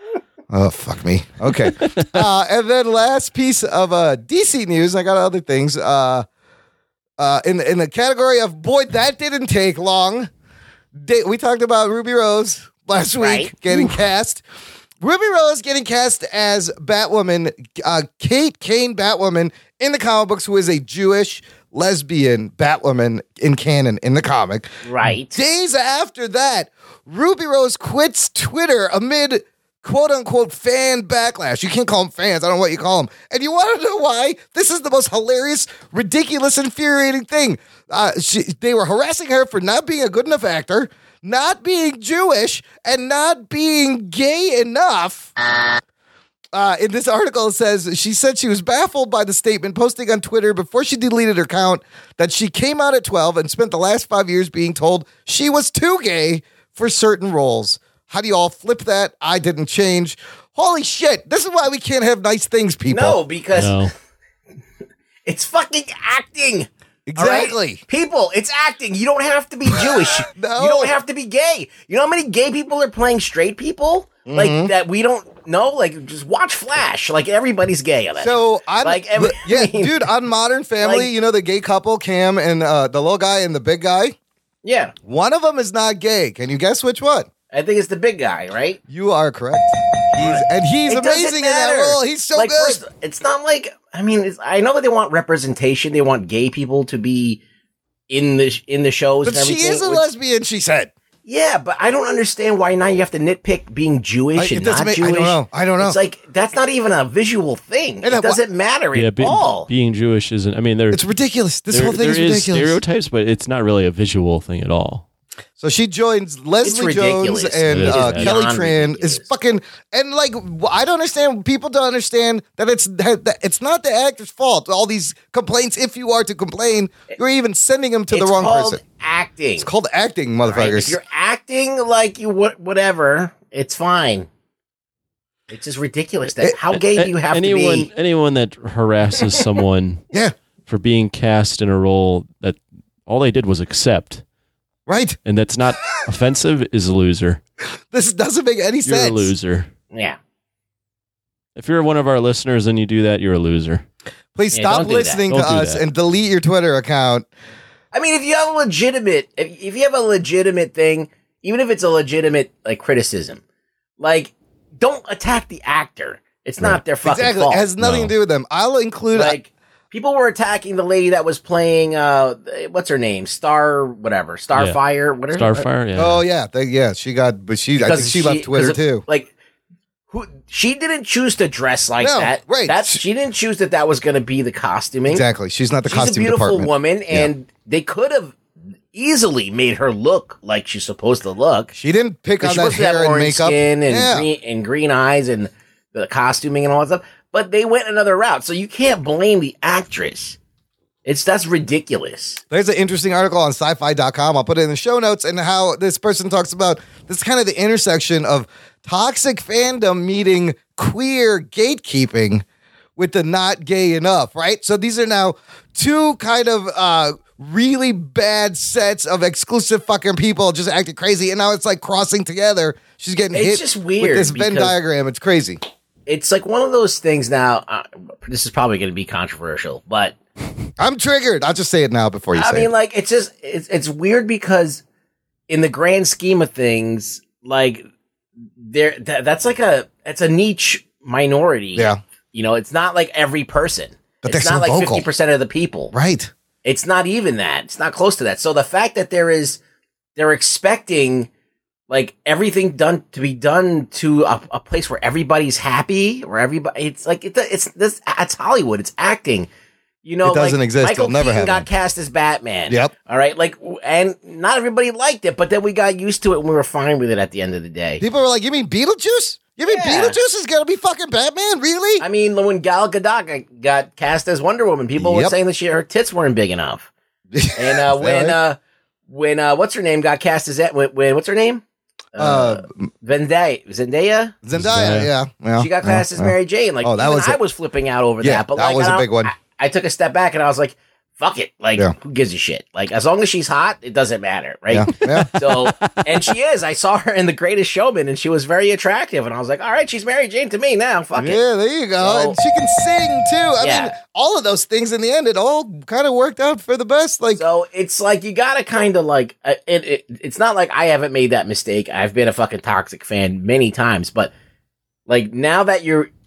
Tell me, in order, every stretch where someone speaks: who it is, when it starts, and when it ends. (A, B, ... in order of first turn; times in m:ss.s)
0:00.5-0:06.2 A
0:01.7-0:02.1 B
0:07.2-0:10.3 A
0:11.0-0:14.4 A
0:13.2-0:13.9 C
0:15.0-0:24.7 A
0:24.8-0:25.4 C
0:25.2-0:45.3 A
0:46.5-1:03.2 A
1:02.9-1:03.9 C
1:03.5-1:03.9 B
1:05.2-1:20.0 C
1:07.1-1:07.8 A
1:10.3-1:10.9 A
1:14.2-1:14.7 A
1:18.2-1:24.2 A
1:20.8-1:21.1 C
1:24.6-1:24.9 C
1:25.0-1:27.3 A
1:27.5-1:28.8 C
1:28.9-1:32.8 A
1:30.1-1:37.4 C
1:38.1-1:40.0 C
1:39.2-1:40.9 A
1:41.2-1:49.7 C
1:44.4-1:46.0 A
1:48.0-1:48.4 A
1:48.9-1:51.0 B
1:50.9-1:52.8 A
1:51.7-1:55.0 B
1:55.6-2:08.8 A
1:56.6-1:59.3 C
1:57.7-1:58.3 B
2:08.1-2:09.7 C
2:09.6-2:11.0 A
2:10.4-2:14.3 C
2:15.5-2:17.9 C
2:16.7-2:20.0 B
2:20.7-2:24.2 B
2:24.9-2:25.2 A
2:25.2-2:27.4 B
2:27.9-2:29.3 A
2:28.8-2:29.7 B
2:29.9-2:30.2 C
2:31.5-2:33.8 B
2:34.4-2:37.2 A
2:34.5-2:35.2 C
2:35.3-2:35.8 B
2:37.9-2:43.4 C
2:44.0-2:47.6 C
2:46.6-2:49.3 A
2:47.8-2:48.1 B
2:49.1-2:55.6 C
2:54.5-2:56.2 B
2:56.0-2:59.0 A
2:57.8-2:59.3 C
3:00.1-3:05.2 C
3:02.0-3:03.0 A
3:05.1-3:07.3 A
3:05.9-3:08.4 C
3:08.9-3:11.7 C
3:11.7-3:14.2 A
3:12.4-3:20.4 C
3:21.0-3:22.4 C
3:22.5-3:32.4 A
3:33.0-3:45.6 A
3:43.3-3:44.8 C
3:46.1-3:50.1 C
3:50.8-3:52.7 A
3:52.3-3:54.8 C
3:55.5-3:57.8 C
3:58.6-4:05.9 C
4:04.2-4:05.0 A
4:05.9-4:06.3 A
4:06.6-4:09.6 C
4:10.2-4:11.3 C
4:11.9-4:19.5 C
4:20.0-4:28.0 C
4:20.2-4:21.6 A
4:28.0-4:32.0 A
4:29.7-4:30.2 C
4:32.0-4:36.9 C
4:35.0-4:35.3 A
4:37.3-4:38.4 A
4:37.6-4:41.6 C
4:42.1-4:44.4 C
4:42.2-4:42.9 A
4:44.4-4:47.4 A
4:44.5-4:45.1 B
4:45.6-5:01.4 C
4:48.2-4:49.3 A
4:54.7-4:55.3 A
4:55.2-4:56.1 B
5:01.2-5:07.4 A
5:02.0-5:02.4 C
5:03.6-5:03.9 C
5:07.3-5:14.3 C
5:15.1-5:16.1 C